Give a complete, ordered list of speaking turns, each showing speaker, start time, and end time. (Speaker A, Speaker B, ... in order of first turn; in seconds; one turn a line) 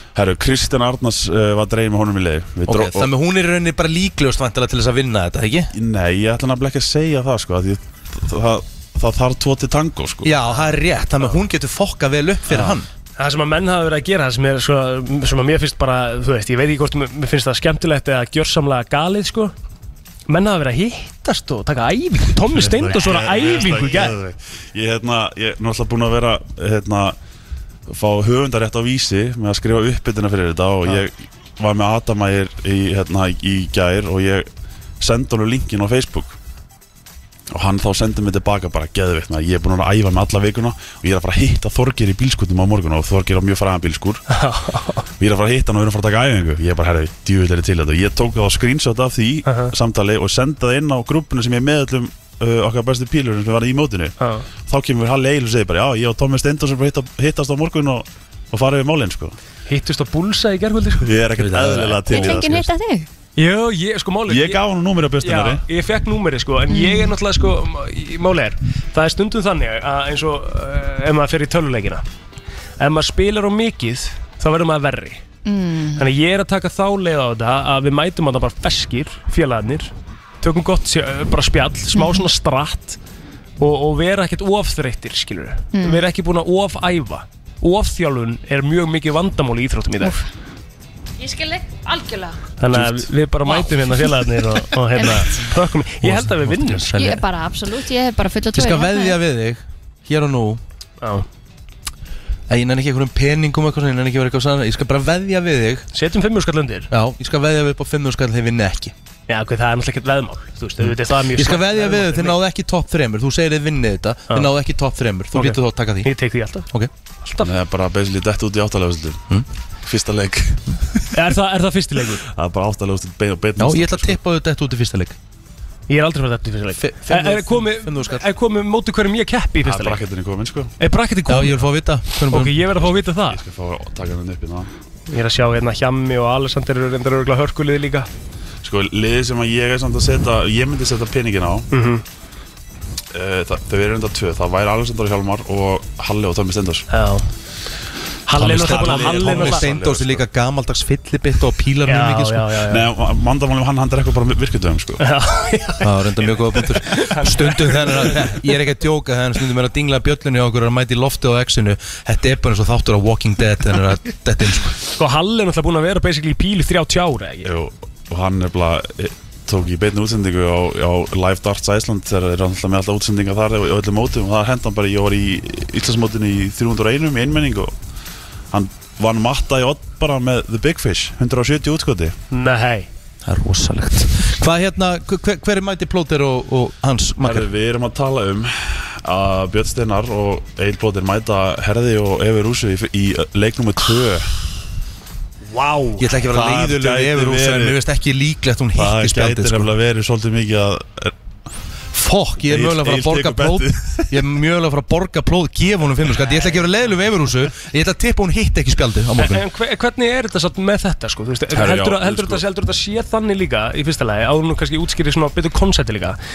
Speaker A: 0.1-3.1
Speaker B: 2.7-5.7
Speaker A: 5.7-10.4
Speaker B: 10.2-12.9
Speaker C: 13.2-19.5
Speaker C: 20.3-24.2
Speaker A: 22.5-27.2
Speaker A: 27.9-34.5
Speaker A: 35.0-36.4
Speaker A: 37.5-44.2
Speaker C: 44.3-45.0
Speaker A: 45.2-54.1
Speaker C: 49.5-49.8
Speaker C: 54.2-54.5
Speaker A: 54.7-59.4
Speaker C: 59.7-62.3
Speaker A: 61.0-62.7
Speaker D: 62.1-63.1
Speaker C: 63.4-64.7
Speaker A: 64.3-65.6
Speaker C: 65.2-72.0
Speaker D: 66.7-67.1
Speaker C: 72.8-75.2
Speaker D: 75.5-76.0
Speaker C: 76.0-83.0
Speaker D: 82.0-82.3
Speaker C: 83.6-90.2
Speaker D: 85.7-86.0
Speaker D: 91.2-92.4
Speaker C: 92.6-96.9
Speaker D: 95.0-95.4
Speaker B: 96.0-97.2
Speaker D: 96.9-99.2
Speaker B: 98.5-100.6
Speaker C: 101.0-101.3
Speaker B: 102.5-105.9
Speaker C: 105.9-106.9
Speaker B: 106.9-108.9
Speaker C: 109.3-112.4
Speaker B: 111.3-116.1
Speaker C: 115.3-116.7
Speaker C: 117.2-117.5
Speaker A: 117.4-119.2
Speaker A: 119.8-121.0
Speaker C: 121.1-122.2
Speaker A: 122.3-124.2
Speaker B: 123.6-125.2
Speaker C: 125.9-130.1
Speaker B: 126.8-128.3
Speaker A: 129.6-130.7
Speaker C: 130.8-133.4
Speaker B: 131.3-132.6
Speaker A: 132.7-134.7
Speaker C: 135.1-138.1
Speaker A: 138.6-141.7
Speaker C: 141.7-142.0
Speaker A: 143.1-146.9
Speaker C: 146.9-147.3
Speaker C: 148.3-150.2
Speaker B: 148.3-152.5
Speaker A: 148.5-150.2
Speaker C: 151.9-152.9
Speaker A: 152.6-155.0
Speaker C: 155.0-158.4
Speaker B: 155.8-164.8
Speaker C: 165.0-167.5
Speaker A: 167.4-177.7
Speaker A: 178.5-182.2
Speaker C: 182.3-182.9
Speaker B: 183.3-187.5
Speaker A: 187.2-194.3
Speaker B: 196.0-199.7
Speaker A: 196.2-197.8
Speaker A: 198.8-201.1
Speaker B: 201.9-209.4
Speaker A: 202.4-204.2
Speaker C: 209.2-216.2
Speaker A: 211.5-212.4